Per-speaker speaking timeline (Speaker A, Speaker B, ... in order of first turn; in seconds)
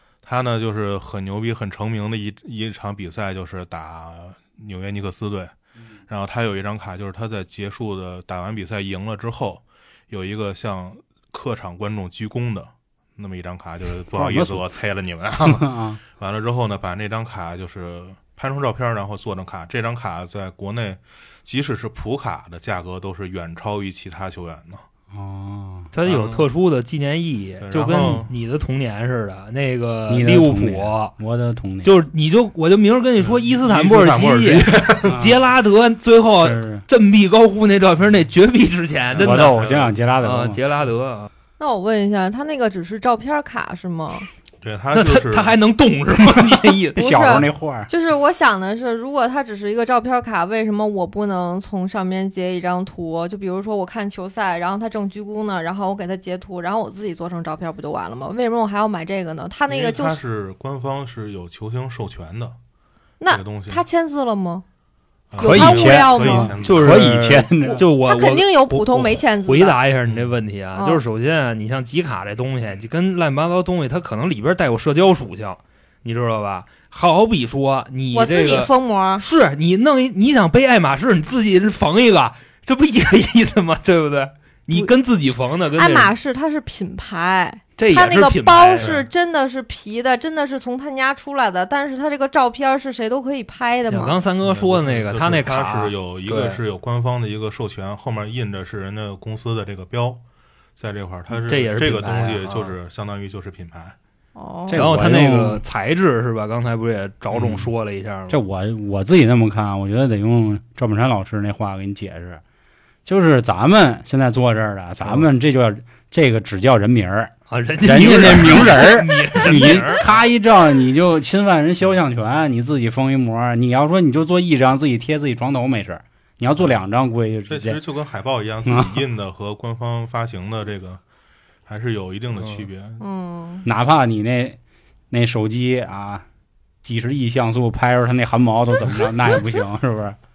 Speaker A: 0.2-5.5, 6.1-24.8, 26.0-26.5, 27.6-28.3, 33.2-35.2, 39.1-40.0, 44.6-45.5, 59.7-62.5, 63.3-63.8, 65.3-67.2, 70.0-70.3, 88.8-89.1, 94.4-100.2, 100.8-104.0, 127.5-131.0, 131.7-133.0
Speaker B: 14.1-14.6, 15.4-16.0, 25.1-25.9, 30.1-31.9, 35.1-35.3, 36.4-36.8, 39.2-40.6, 46.9-47.9, 65.4-67.8, 104.7-105.6, 107.3-107.7, 108.3-112.4, 113.0-127.8, 128.6-128.9, 133.6-134.6, 135.1-136.2, 136.8-140.2
Speaker C: 25.9-31.1, 31.8-39.6, 40.2-41.3, 44.9-47.0, 65.5-66.0, 66.6-86.1, 87.8-89.0, 93.9-96.6, 101.4-102.7, 104.7-108.4, 117.5-120.1, 132.4-132.7
Speaker D: 41.6-44.3, 47.0-60.2, 63.2-64.6, 65.4-66.5, 67.6-69.8, 70.7-71.0, 78.1-79.2, 85.7-94.2, 104.3-104.9, 133.0-133.7